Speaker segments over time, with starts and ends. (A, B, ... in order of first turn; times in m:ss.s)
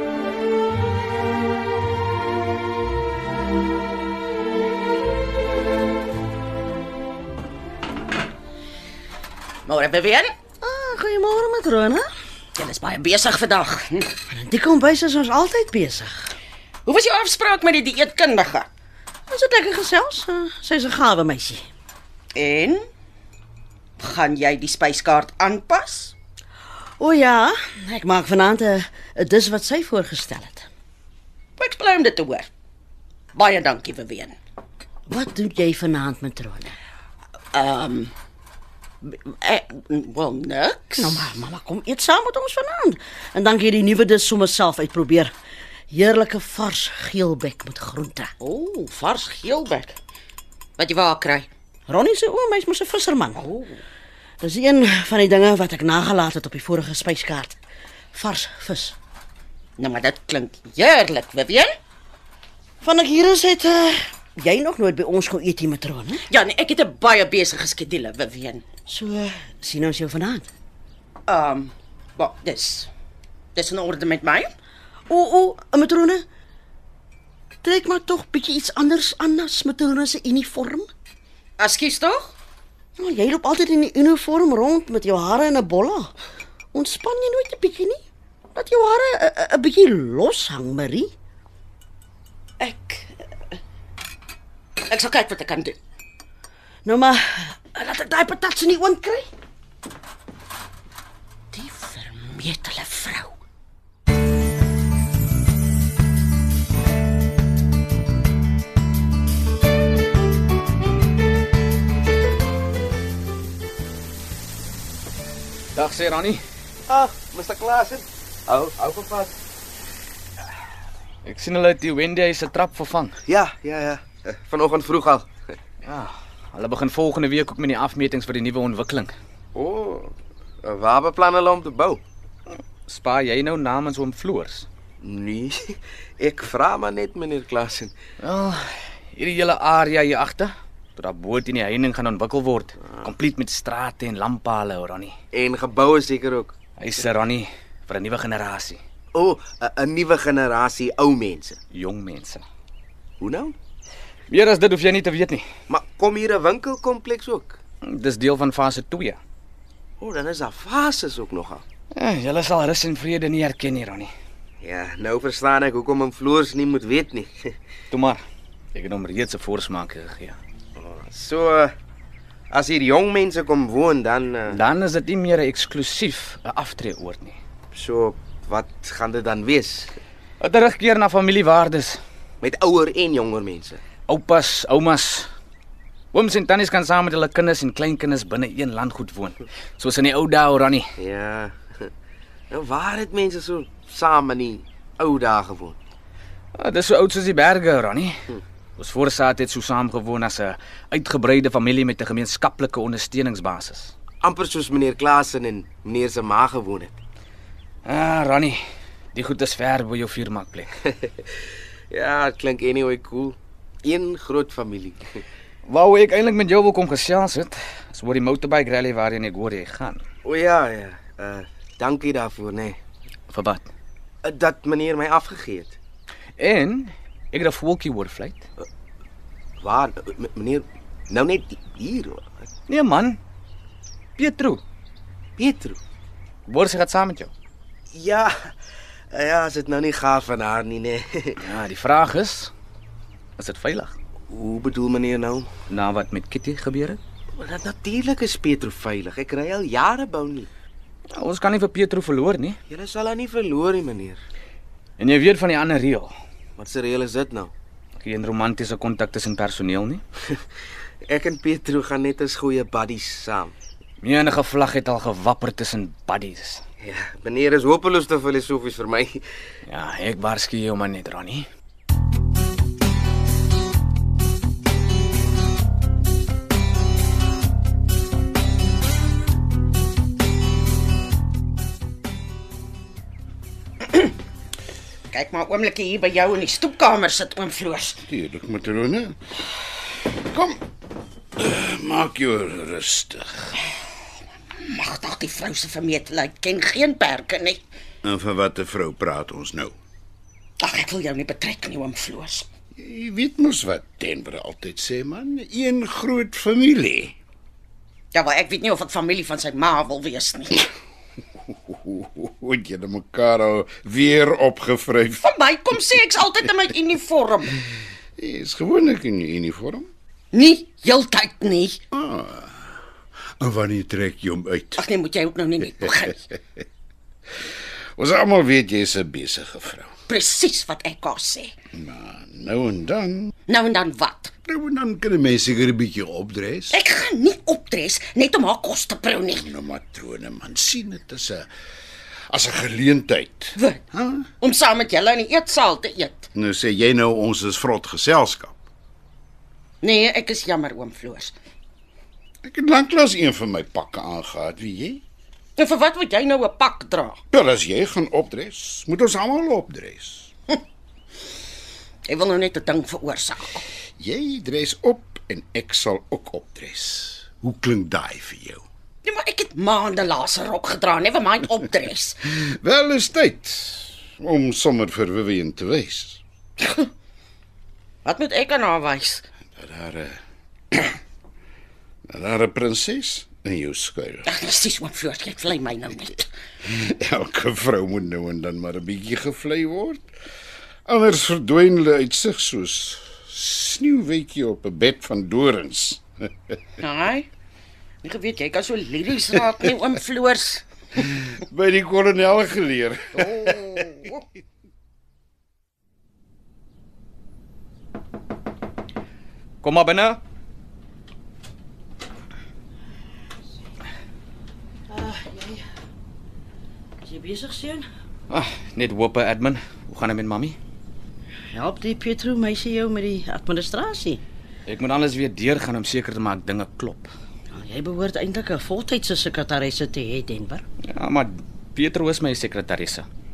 0:09.6-0:10.3 A
0:10.6-0:12.0 B
0:12.6-0:14.2 A
0:14.3-0:16.3 B
0:16.8-0:18.7 A
0:19.3-0:21.6 B
0:22.3-0:22.8 A
0:24.0-0:26.1 A
0:27.0-0:30.7 B
0:31.6-0:32.5 A
0:33.3-0:34.4 A
0:35.1-0:36.7 B
0:37.5-0:38.1 A
0:39.0-0:41.3 A
0:41.0-0:45.3 B
0:45.9-0:48.3 B
0:48.4-0:50.0 A
0:50.8-0:51.5 A
0:51.9-0:53.5 B
0:53.4-0:53.8 A
0:54.4-0:57.6 B
0:58.1-0:59.0 B
0:59.8-1:01.7 A
1:02.8-1:06.2 B
1:06.3-1:08.6 A
1:08.9-1:10.5 B
1:11.3-1:12.9 A
1:13.5-1:14.5 A
1:15.1-1:16.2 B
1:17.6-1:20.9 B
1:21.6-1:22.3 A
1:23.0-1:26.1 B
1:26.7-1:28.0 B
1:28.5-1:31.1 B
1:32.6-1:33.1 A
1:34.8-1:35.8 A
1:36.8-1:39.3 B
1:41.5-1:43.4 A
1:55.7-1:56.4 C
1:56.9-1:59.3 D
2:01.2-2:03.1 C
2:03.3-2:05.5 D
2:05.8-2:09.1 C
2:09.5-2:12.0 D
2:12.8-2:14.6 C
2:15.0-2:17.9 D
2:18.2-2:25.1 C
2:25.3-2:26.5 D
2:26.8-2:28.8 C
2:29.1-2:31.6 D
2:31.7-2:32.4 C
2:33.2-2:33.5 D
2:34.3-2:35.4 C
2:35.7-2:37.6 D
2:37.8-2:39.2 C
2:40.0-2:41.6 D
2:41.9-2:44.1 C
2:44.6-2:47.5 D
2:47.9-2:48.2 C
2:48.7-2:50.4 C
2:50.8-2:51.7 D
2:52.5-2:54.6 D
2:54.5-2:57.4 C
2:57.7-2:59.9 D
3:00.4-3:02.0 C
3:02.4-3:03.8 D
3:04.1-3:05.3 C
3:06.1-3:10.9 C
3:11.0-3:11.9 D
3:12.5-3:15.8 D
3:16.5-3:18.2 C
3:18.8-3:23.9 C
3:24.2-3:27.0 D
3:27.8-3:28.6 C
3:29.1-3:30.7 C
3:31.9-3:35.2 D
3:35.6-3:40.0 C
3:40.2-3:42.8 D
3:43.3-3:43.7 C
3:44.2-3:45.8 D
3:46.4-3:48.4 C
3:49.6-3:52.3 D
3:52.7-3:53.2 C
3:54.2-3:54.6 C
3:55.4-3:55.8 D
3:56.5-3:57.3 C
3:57.9-3:58.5 D
3:59.1-4:01.4 D
4:01.4-4:02.5 C
4:03.4-4:03.9 C
4:04.3-4:05.5 D
4:05.7-4:07.0 C
4:07.3-4:10.5 D
4:11.1-4:12.6 C
4:12.7-4:14.2 D
4:15.0-4:16.1 C
4:16.6-4:17.5 D
4:18.0-4:20.0 C
4:21.0-4:23.5 D
4:24.0-4:26.6 C
4:26.8-4:29.2 D
4:29.7-4:31.5 C
4:45.1-4:48.0 A
4:48.1-4:49.2 E
4:50.2-4:50.6 E
4:51.4-4:53.5 E
4:54.6-4:57.6 A
4:58.0-4:59.7 E
5:00.6-5:02.5 A
5:02.8-5:07.1 E
5:08.1-5:10.7 A
5:11.7-5:15.2 E
5:15.2-5:17.7 A
5:18.2-5:19.9 E
5:20.3-5:21.8 A
5:21.9-5:22.7 E
5:23.4-5:24.8 E
5:24.8-5:26.2 A
5:28.0-5:29.9 E
5:30.1-5:31.5 A
5:31.7-5:33.3 E
5:33.5-5:34.3 A
5:34.5-5:36.8 E
5:36.7-5:39.5 A
5:39.3-5:41.5 E
5:42.3-5:44.2 E
5:44.4-5:46.3 A
5:46.3-5:48.5 E
5:49.8-5:51.4 A
5:52.4-5:55.0 E
5:55.6-5:57.2 A
5:57.3-6:00.3 E
6:02.0-6:03.6 A
6:04.0-6:08.6 E
6:09.0-6:12.2 A
6:12.3-6:16.2 E
6:16.6-6:16.9 A
6:18.0-6:19.2 A
6:19.6-6:20.2 E
6:22.1-6:24.3 E
6:24.2-6:26.3 A
6:26.6-6:30.0 E
6:30.8-6:36.0 E
6:36.8-6:37.3 A
6:38.0-6:40.6 A
6:41.2-6:43.9 E
6:43.2-6:44.2 A
6:49.6-6:50.2 C
6:54.9-6:55.6 B
6:57.0-6:57.8 B
6:58.3-7:00.6 C
7:01.5-7:04.2 B
7:04.7-7:07.1 C
7:07.5-7:10.6 B
7:10.9-7:13.1 C